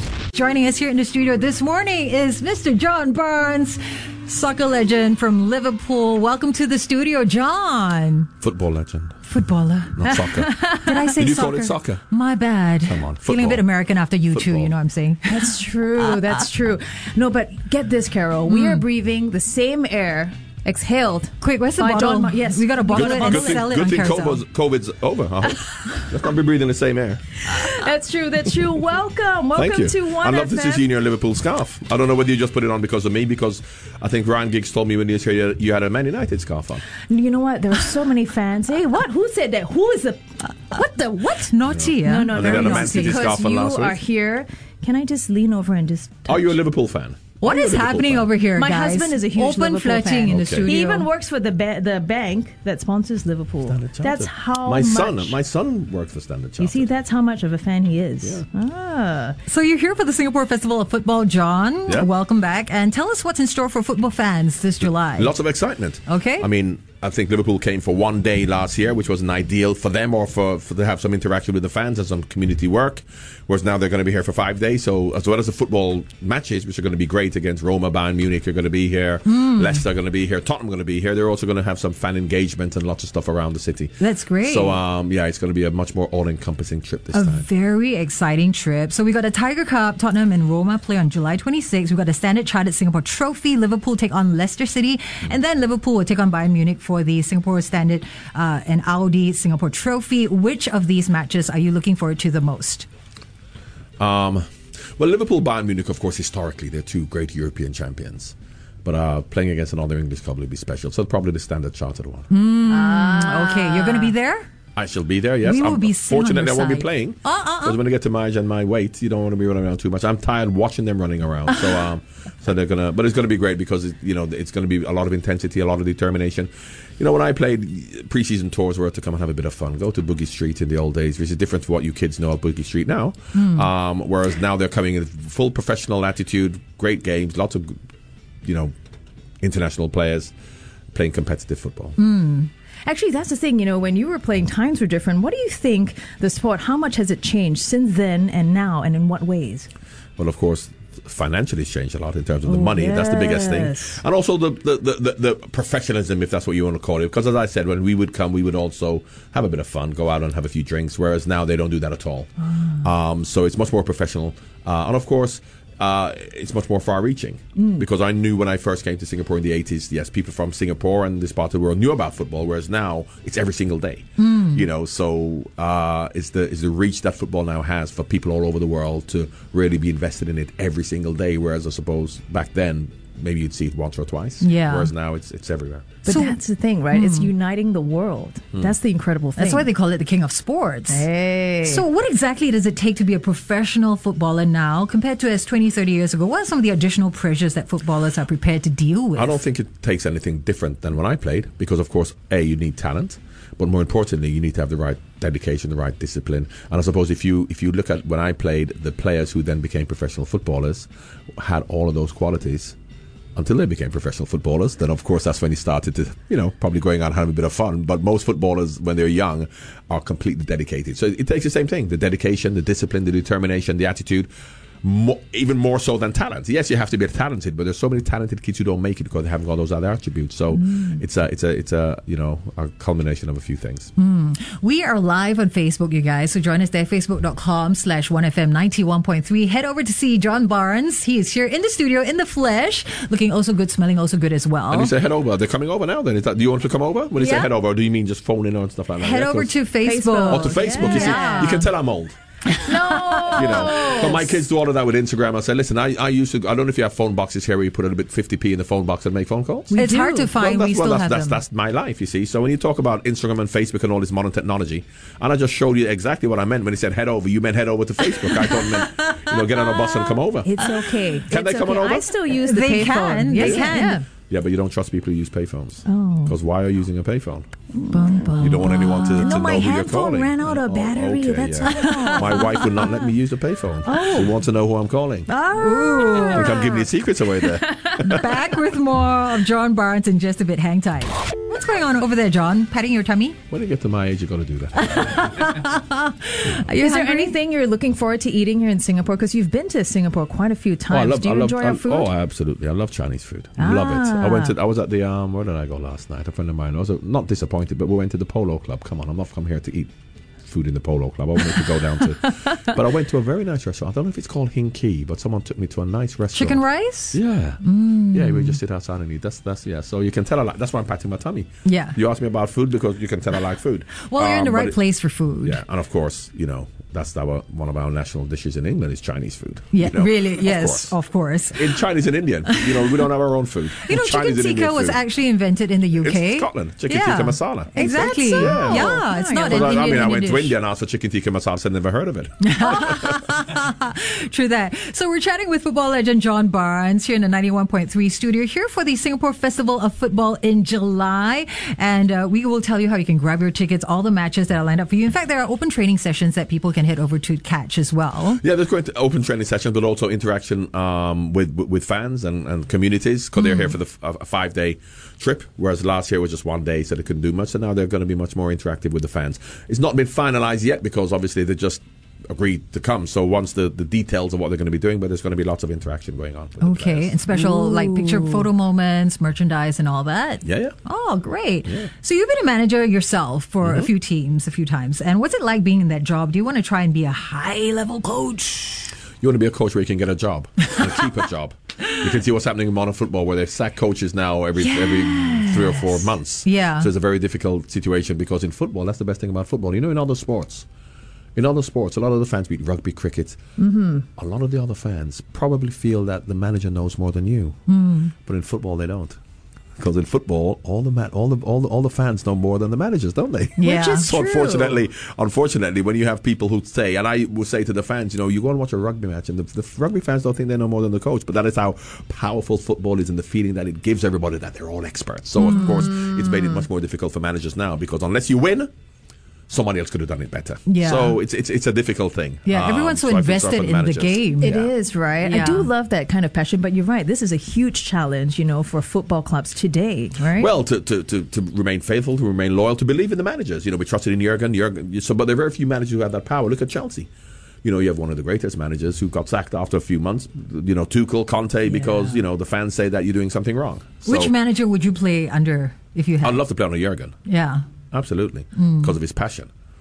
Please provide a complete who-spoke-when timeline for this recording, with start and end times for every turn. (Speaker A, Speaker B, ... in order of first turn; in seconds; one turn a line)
Speaker A: 0.3-8.3
Speaker B: 8.4-9.2
Speaker A: 9.2-15.5
Speaker B: 10.0-10.5
Speaker C: 10.3-11.1
Speaker B: 11.2-12.0
Speaker B: 12.8-13.6
Speaker B: 14.3-14.8
Speaker C: 15.3-23.6
Speaker A: 18.5-18.8
Speaker A: 21.4-24.4
Speaker B: 22.9-27.3
Speaker C: 27.5-30.8
Speaker B: 29.5-36.8
Speaker C: 37.1-46.6
Speaker A: 41.5-43.4
Speaker B: 41.7-44.0
Speaker B: 46.3-48.3
Speaker A: 47.4-51.1
Speaker C: 48.5-55.4
Speaker B: 50.3-50.7
Speaker B: 53.6-56.9
Speaker C: 56.6-59.4
Speaker A: 59.5-65.3
Speaker B: 64.8-87.5
Speaker A: 66.1-66.5
Speaker A: 79.2-79.8
Speaker A: 84.0-84.8
Speaker A: 87.1-102.9
Speaker B: 104.0-104.4
Speaker B: 105.0-112.3
Speaker A: 112.3-114.5
Speaker C: 112.7-114.1
Speaker B: 114.8-137.8
Speaker A: 115.4-117.7
Speaker A: 133.3-133.7
Speaker B: 138.4-138.7
Speaker B: 139.4-140.3
Speaker B: 140.9-142.0
Speaker A: 142.0-142.5
Speaker C: 142.8-149.7
Speaker B: 150.2-185.9
Speaker C: 152.5-154.0
Speaker A: 174.2-174.7
Speaker A: 184.4-184.9
Speaker C: 186.0-189.7
Speaker A: 186.1-186.4
Speaker A: 186.9-187.3
Speaker A: 189.4-191.1
Speaker C: 190.9-191.8
Speaker A: 191.6-199.4
Speaker B: 199.1-212.8
Speaker B: 213.3-224.3
Speaker B: 224.8-233.9
Speaker A: 233.9-244.9
Speaker B: 244.7-249.6
Speaker A: 247.2-247.5
Speaker A: 249.0-251.7
Speaker C: 249.8-251.6
Speaker B: 250.3-252.2
Speaker A: 252.6-254.0
Speaker C: 252.7-254.3
Speaker B: 253.3-259.7
Speaker C: 259.7-260.3
Speaker A: 259.7-261.4
Speaker B: 260.4-270.5
Speaker A: 268.5-269.8
Speaker C: 270.4-274.1
Speaker B: 271.3-272.1
Speaker A: 272.4-274.0
Speaker B: 273.4-273.6
Speaker B: 274.2-277.5
Speaker C: 275.9-276.4
Speaker C: 277.8-282.8
Speaker A: 277.8-279.5
Speaker B: 278.4-285.3
Speaker A: 281.6-282.7
Speaker C: 283.9-284.4
Speaker C: 285.3-286.8
Speaker A: 285.5-286.7
Speaker B: 286.2-288.3
Speaker C: 287.6-288.0
Speaker A: 288.0-293.4
Speaker B: 293.5-295.4
Speaker A: 294.8-297.3
Speaker C: 296.5-302.1
Speaker B: 300.9-309.9
Speaker C: 303.6-304.5
Speaker B: 310.4-316.6
Speaker A: 316.3-318.6
Speaker B: 317.1-324.8
Speaker A: 321.6-322.0
Speaker A: 324.0-325.6
Speaker B: 325.4-330.9
Speaker A: 329.7-331.8
Speaker B: 331.5-335.0
Speaker A: 333.8-340.6
Speaker B: 336.0-343.1
Speaker C: 337.8-340.1
Speaker A: 342.4-358.4
Speaker B: 358.4-377.2
Speaker A: 363.4-363.7
Speaker A: 376.6-388.9
Speaker B: 380.4-380.8
Speaker B: 383.6-383.9
Speaker B: 389.2-400.7
Speaker A: 394.6-396.9
Speaker B: 401.3-403.4
Speaker C: 403.6-404.1
Speaker B: 404.2-407.6
Speaker A: 407.7-408.1
Speaker B: 408.2-409.2
Speaker B: 409.8-428.7
Speaker A: 413.6-414.1
Speaker C: 413.6-414.8
Speaker A: 425.4-426.6
Speaker B: 429.5-434.7
Speaker A: 430.6-431.2
Speaker A: 432.4-434.6
Speaker C: 434.4-440.5
Speaker A: 435.2-435.7
Speaker B: 440.4-447.1
Speaker B: 447.6-454.3
Speaker A: 451.7-452.2
Speaker A: 454.0-456.4
Speaker B: 456.2-457.1
Speaker A: 457.2-457.6
Speaker B: 457.9-459.5
Speaker A: 458.6-458.9